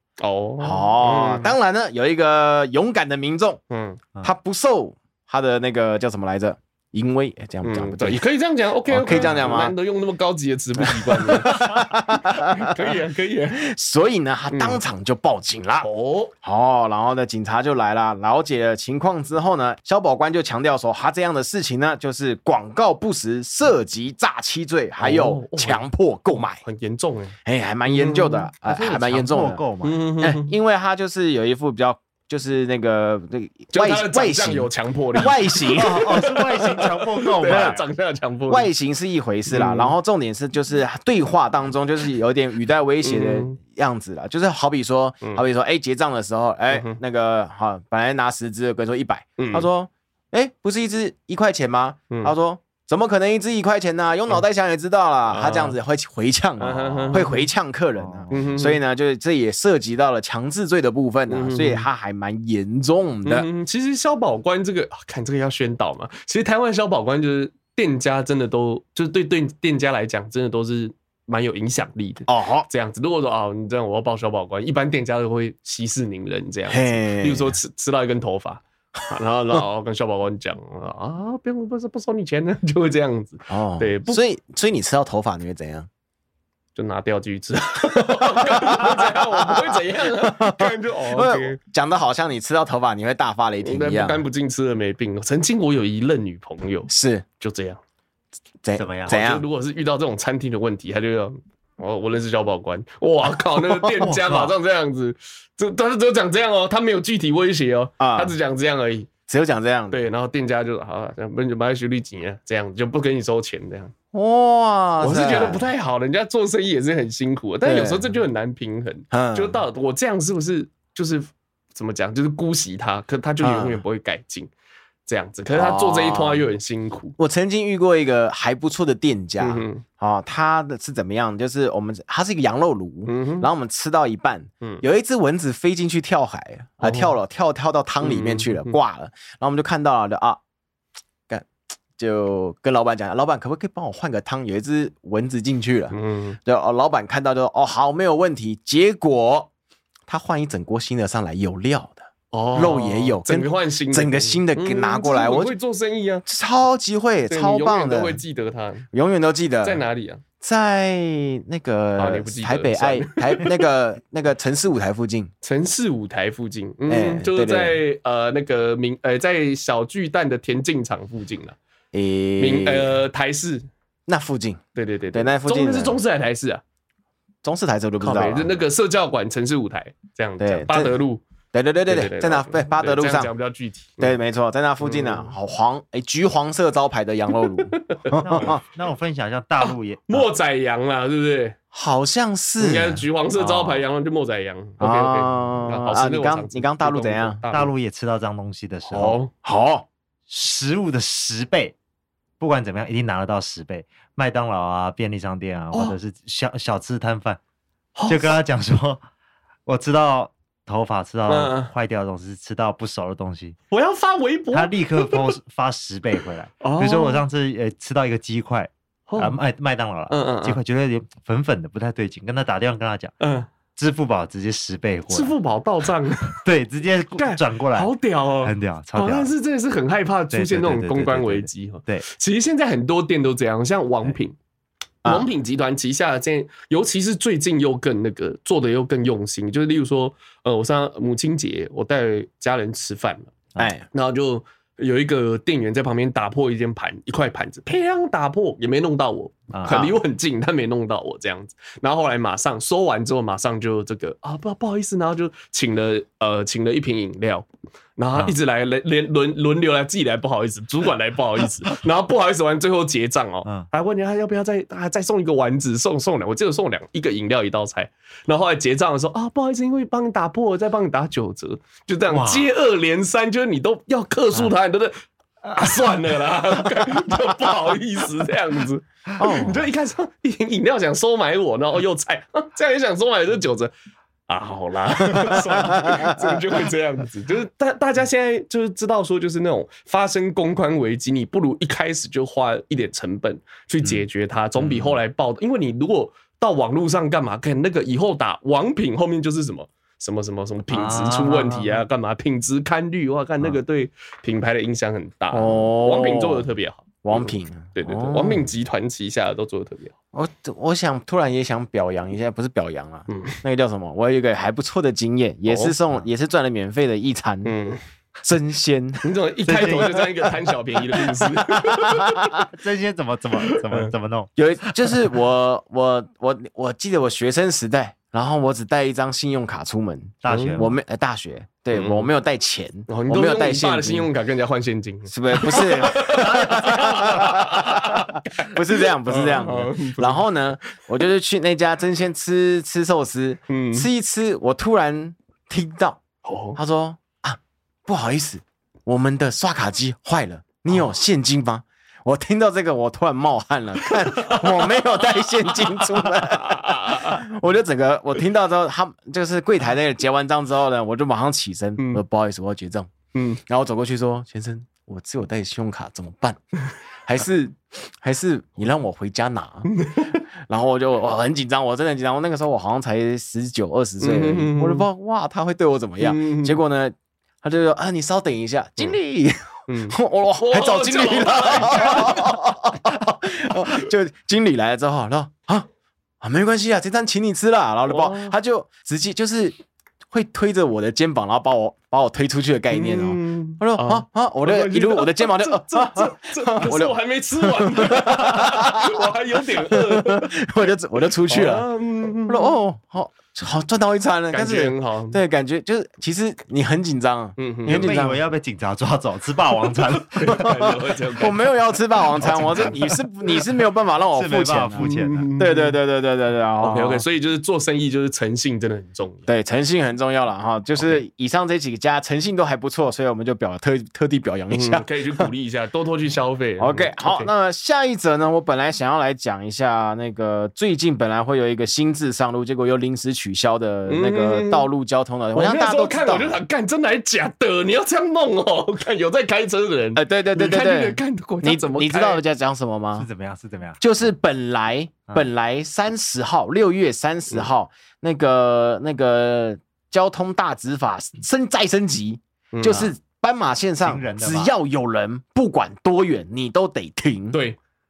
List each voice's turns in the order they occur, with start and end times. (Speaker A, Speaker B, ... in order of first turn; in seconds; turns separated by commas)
Speaker A: 0.2-1.5, Speaker B: 0.6-3.6, Speaker A: 3.7-4.0, Speaker B: 4.2-8.2, Speaker A: 7.6-13.7, Speaker B: 8.9-9.7, Speaker B: 11.0-12.9, Speaker B: 13.6-15.9, Speaker A: 14.5-14.8, Speaker A: 15.8-16.3, Speaker B: 16.4-26.6, Speaker A: 25.0-27.3, Speaker B: 27.4-29.6, Speaker A: 27.9-28.4, Speaker C: 28.6-30.0, Speaker A: 29.8-30.5, Speaker B: 30.2-36.1, Speaker A: 33.7-38.7, Speaker C: 35.8-37.8, Speaker B: 37.4-37.8, Speaker B: 38.5-63.5, Speaker A: 39.5-39.9, Speaker A: 43.0-43.6, Speaker A: 46.7-47.0, Speaker A: 49.4-49.7, Speaker A: 55.3-55.7, Speaker A: 56.6-57.4, Speaker C: 58.0-58.5, Speaker A: 58.3-58.8, Speaker A: 61.3-61.9, Speaker A: 63.2-84.2, Speaker B: 72.3-72.7, Speaker B: 76.7-77.5, Speaker B: 83.5-85.9, Speaker A: 86.7-91.6, Speaker B: 88.3-94.2, Speaker A: 93.6-97.8, Speaker B: 96.9-97.2, Speaker B: 98.6-99.4, Speaker C: 98.7-99.1, Speaker A: 99.0-109.1, Speaker C: 104.0-104.5, Speaker B: 108.0-108.3, Speaker B: 109.3-110.0, Speaker A: 109.9-113.9, Speaker B: 114.1-115.7, Speaker A: 115.0-124.5, Speaker B: 117.6-118.1, Speaker B: 119.1-119.6, Speaker B: 123.4-123.8, Speaker A: 125.0-127.2, Speaker B: 125.5-126.5, Speaker B: 127.2-140.4, Speaker A: 129.4-129.8, Speaker A: 133.1-133.5, Speaker A: 136.8-137.1, Speaker A: 138.0-138.8, Speaker B: 142.0-149.5, Speaker A: 145.9-146.4, Speaker B: 150.1-155.5, Speaker A: 152.3-156.2, Speaker B: 156.3-158.2, Speaker A: 157.3-158.9, Speaker B: 158.9-159.8, Speaker A: 159.6-160.2, Speaker B: 160.4-165.3, Speaker A: 162.0-163.6, Speaker A: 165.4-171.6, Speaker B: 166.9-167.8, Speaker B: 171.9-172.9, Speaker A: 172.4-173.7, Speaker B: 174.1-176.0, Speaker A: 174.7-176.6, Speaker B: 177.4-178.5, Speaker A: 178.0-181.2, Speaker B: 180.4-181.0, Speaker B: 181.5-183.3, Speaker A: 181.9-184.1, Speaker B: 184.0-188.6, Speaker A: 184.8-185.3, Speaker A: 187.9-188.5, Speaker C: 188.2-190.2, Speaker A: 190.1-191.6, Speaker B: 191.7-193.0, Speaker A: 192.6-197.7, Speaker B: 194.8-197.4, Speaker C: 197.5-199.2, Speaker A: 198.9-199.3, Speaker B: 199.0-199.8, Speaker C: 200.3-201.7, Speaker C: 202.4-207.4, Speaker A: 207.9-208.3, Speaker C: 208.1-209.0, Speaker C: 209.7-213.6, Speaker A: 211.3-211.7, Speaker A: 213.7-215.3, Speaker C: 214.5-223.1, Speaker A: 216.6-217.2, Speaker A: 219.1-219.4, Speaker A: 220.1-220.6, Speaker A: 223.2-223.5, Speaker C: 223.8-225.3, Speaker A: 225.1-226.4, Speaker C: 226.3-229.3, Speaker A: 227.2-234.3, Speaker C: 230.3-232.0, Speaker A: 235.0-243.3, Speaker B: 243.6-243.8, Speaker A: 243.9-257.4, Speaker C: 249.5-249.8, Speaker B: 249.7-250.0, Speaker A: 258.0-274.9, Speaker C: 272.1-272.5, Speaker A: 275.5-283.7, Speaker B: 279.2-279.7, Speaker A: 284.3-309.9, Speaker B: 285.4-286.0, Speaker C: 300.7-301.7, Speaker B: 305.3-306.5, Speaker B: 307.0-308.5, Speaker B: 310.1-317.5, Speaker A: 313.1-313.4, Speaker A: 315.4-315.7, Speaker A: 317.4-317.8, Speaker B: 318.2-319.0, Speaker A: 319.0-322.4, Speaker C: 319.4-320.3, Speaker C: 321.6-325.0, Speaker B: 324.4-334.1, Speaker C: 330.2-330.8, Speaker A: 330.3-330.6, Speaker A: 331.7-332.1, Speaker A: 332.9-340.3, Speaker B: 335.1-346.0, Speaker A: 343.5-343.9, Speaker A: 346.2-346.6, Speaker B: 346.6-362.9, Speaker A: 353.8-357.2, Speaker A: 363.1-363.4, Speaker B: 363.5-366.4, Speaker B: 367.0-369.7, Speaker A: 369.7-370.2, Speaker B: 370.5-385.7, Speaker A: 374.0-374.9, Speaker A: 376.0-376.6, Speaker A: 379.7-382.5, Speaker B: 386.2-389.5, Speaker A: 387.9-388.3, Speaker B: 390.1-399.1, Speaker A: 392.7-400.3, Speaker B: 399.6-401.6, Speaker A: 401.3-402.5, Speaker B: 402.3-408.2, Speaker A: 404.3-405.2, Speaker A: 407.4-407.9, Speaker C: 407.7-410.8, Speaker A: 410.1-411.4, Speaker B: 410.4-417.0, Speaker A: 412.2-412.9, Speaker C: 412.2-412.8, Speaker C: 414.1-415.3, Speaker A: 414.8-415.8, Speaker A: 416.6-419.3, Speaker B: 419.3-425.3, Speaker A: 424.5-427.3, Speaker B: 426.6-436.4, Speaker A: 433.9-434.7, Speaker A: 435.3-442.2, Speaker B: 439.9-443.1, Speaker C: 442.9-443.8, Speaker B: 443.8-457.4, Speaker A: 452.5-452.9, Speaker C: 453.8-454.5, Speaker A: 457.3-457.6